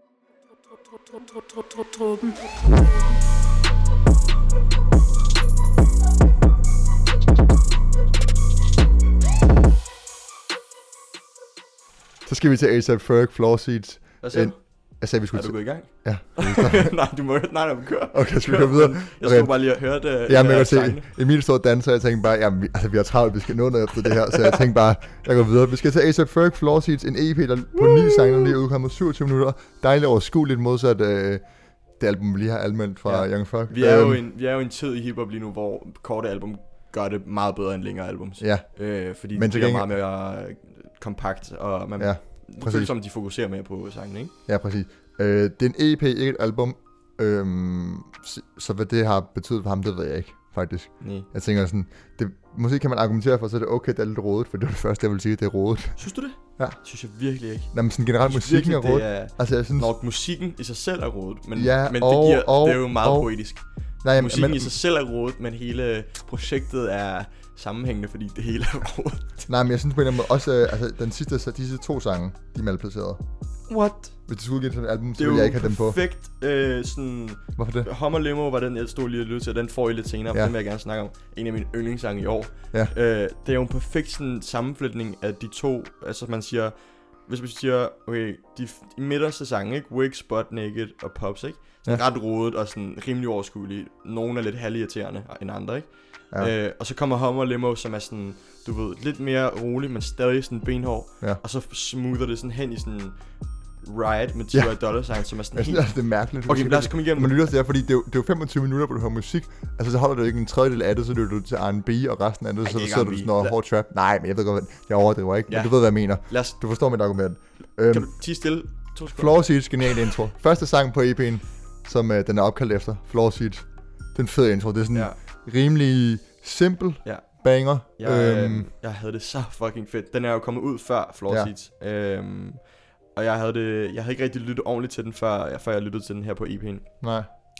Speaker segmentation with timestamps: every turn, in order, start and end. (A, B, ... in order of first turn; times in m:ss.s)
0:00.5-0:03.2 A
0:12.2-0:17.0 B
0:14.2-0:21.1 C
0:18.1-0:31.4 B
0:24.1-0:24.6 C
0:27.7-0:28.6 C
0:32.0-0:34.2 B
0:33.0-0:44.3 C
0:38.4-0:39.9 B
0:42.0-0:42.9 B
0:44.5-0:56.0 B
0:51.0-0:51.3 C
0:56.0-1:09.5 C
0:57.7-0:59.9 B
1:01.5-1:03.3 B
1:04.0-1:04.7 B
1:09.5-1:13.2 B
1:13.7-1:14.2 C
1:14.3-1:16.0 B
1:15.2-1:43.2 C
1:17.6-1:17.9 B
1:43.8-1:45.9 C
1:44.5-1:58.1 B
1:46.4-1:47.3 C
1:52.6-1:53.6 C
1:55.5-1:56.6 C
1:57.9-1:59.6 C
1:59.1-2:08.7 B
2:08.0-2:16.9 C
2:17.0-2:17.3 B